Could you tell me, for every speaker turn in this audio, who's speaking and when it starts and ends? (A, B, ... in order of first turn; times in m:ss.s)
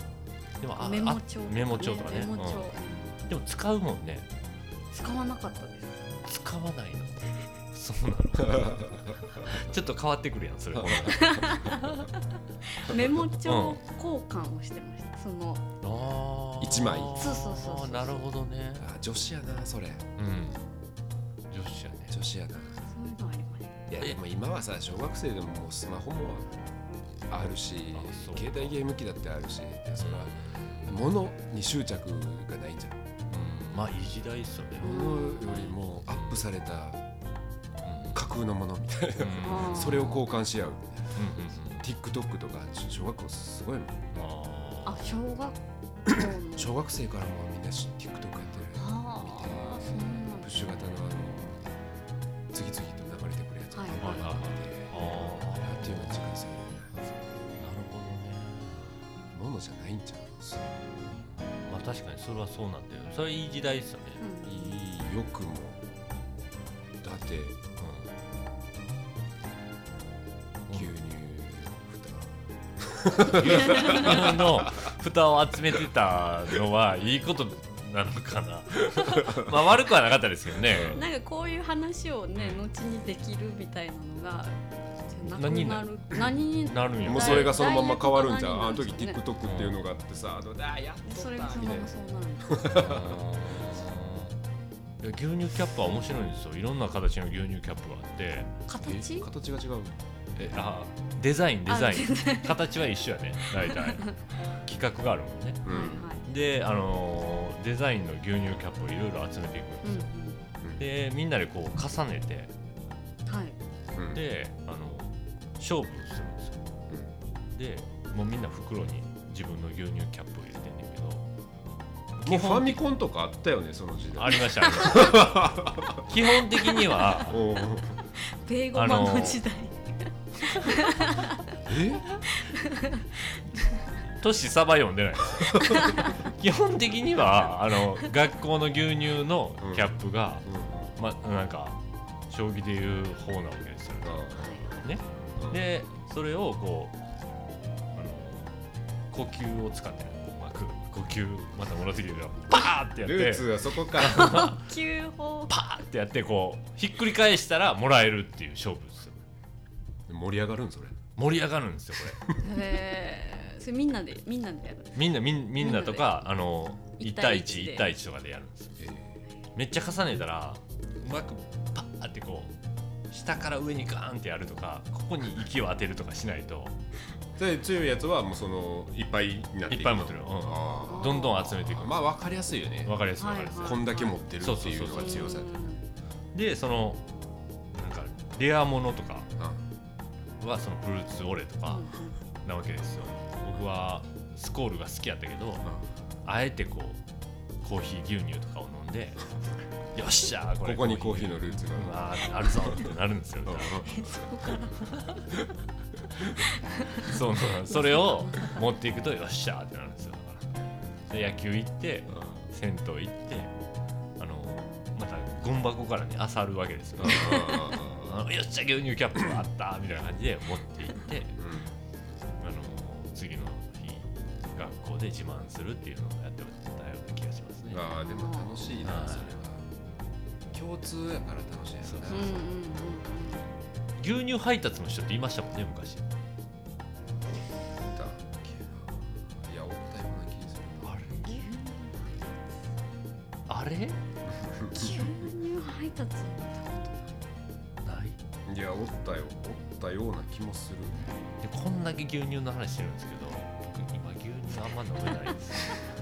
0:00.6-0:02.7 A
0:00.8-0:03.1 B
0:03.3-0:04.3 A
0:04.9-0:06.0 B
0:06.2-0:12.1 A
0:08.4-0:09.5 C
0:10.7-0:12.1 C
0:11.0-0:11.8 B
0:12.6-0:15.6 B
0:12.8-0:13.8 A
0:15.8-0:18.9 A
0:16.6-0:17.2 C
0:17.1-0:18.3 B
0:18.8-0:20.1 C
0:20.2-0:20.6 A
0:21.5-0:22.2 A
0:22.1-0:22.8 C
0:22.8-0:23.7 B
0:23.9-0:26.5 C
0:27.3-0:33.0 C
0:27.9-0:28.8 A
0:30.0-0:31.0 A
0:33.3-0:35.2 A
0:34.8-0:37.0 C
0:34.8-0:35.8 B
0:36.1-0:36.4 A
0:37.8-0:38.2 A
0:38.1-0:44.2 C
0:39.2-0:40.2 A
0:39.4-0:40.2 B
0:41.1-0:41.9 A
0:44.1-0:45.0 A
0:44.8-0:45.6 B
0:46.1-0:51.6 C
0:46.1-0:46.7 B
0:48.7-0:50.5 B
0:52.5-0:57.1 C
0:53.7-0:54.2 B
0:54.0-0:56.2 A
0:57.6-0:58.8 A
0:58.7-1:01.0 C
1:01.7-1:04.2 A
1:04.2-1:04.8 B
1:04.4-1:05.8 C
1:07.0-1:07.6 C
1:07.8-1:08.1 A
1:10.7-1:10.9 A
1:10.7-1:14.9 C
1:13.3-1:21.0 A
1:13.5-1:14.2 B
1:19.2-1:19.5 C
1:20.7-1:21.0 C
1:20.9-1:29.2 B
1:22.4-1:22.6 A
1:25.2-1:27.5 A
1:27.0-1:31.9 C
1:29.4-1:29.8 A
1:31.0-1:32.6 B
1:32.5-1:33.2 C
1:32.7-1:34.3 A
1:35.0-1:38.6 A
1:38.7-1:39.3 B
1:38.8-1:40.0 C
1:40.4-1:50.1 A
1:41.7-1:42.6 B
1:43.7-1:44.1 B
1:45.6-1:46.1 C
1:45.7-1:46.2 B
1:49.8-1:50.4 B
1:50.8-1:52.5 A
1:53.3-1:53.6 B
1:54.1-1:56.6 A
1:57.5-2:01.3 A
2:02.2-2:02.8 A
2:02.2-2:06.1 C
2:04.2-2:07.4 A
2:07.2-2:08.0 C
2:08.0-2:11.6 B
2:08.7-2:09.4 A
2:11.6-2:12.0 C
2:12.2-2:13.9 B
2:14.0-2:21.8 A
2:15.4-2:16.1 C
2:15.6-2:16.3 B
2:19.6-2:19.9 C
2:20.4-2:21.0 C
2:22.3-2:27.0 A
2:24.0-2:24.8 C
2:24.3-2:24.7 B
2:25.4-2:25.6 C
2:27.9-2:28.5 A
2:29.1-2:34.6 A
2:33.0-2:34.5 C
2:34.1-2:35.6 B
2:35.5-2:39.2 A
2:40.1-2:41.0 C
2:41.2-2:42.2 A
2:42.1-2:42.4 C
2:42.4-2:45.0 B
2:44.9-2:48.8 A
2:45.6-2:46.2 B
2:47.0-2:47.9 B
2:48.8-2:49.2 C
2:49.5-2:52.5 A
2:53.1-2:56.7 A
2:57.4-3:03.0 C
2:59.7-3:02.0 A
3:00.8-3:01.6 B
3:02.8-3:03.9 A
3:03.2-3:04.2 B
3:03.5-3:05.5 C
3:04.4-3:05.4 A
3:04.9-3:05.8 B
3:06.3-3:07.0 A
3:07.7-3:09.3 A
3:10.4-3:15.7 A
3:11.6-3:12.2 B
3:16.2-3:17.0 A
3:17.6-3:19.3 A
3:19.9-3:23.8 A
3:20.6-3:24.6 C
3:23.9-3:25.1 B
3:24.9-3:25.2 A
3:26.8-3:27.1 B
3:26.9-3:30.5 A
3:28.0-3:28.6 B
3:31.1-3:33.5 A
3:32.1-3:32.4 C
3:34.2-3:41.4 A
3:37.0-3:38.2 C
3:41.4-3:41.7 C
3:42.4-3:47.9 A
3:47.7-3:49.6 C
3:48.0-3:48.7 B
3:48.8-3:49.3 A
3:50.5-3:52.4 C
3:51.8-3:52.4 A
3:52.1-3:53.4 B
3:54.0-3:56.2 A
3:57.8-4:01.1 C
4:00.8-4:01.4 A
4:01.2-4:02.5 B
4:03.5-4:04.0 A
4:04.2-4:05.2 C
4:04.7-4:07.3 B
4:07.8-4:08.2 A
4:08.4-4:11.3 C
4:11.4-4:15.8 A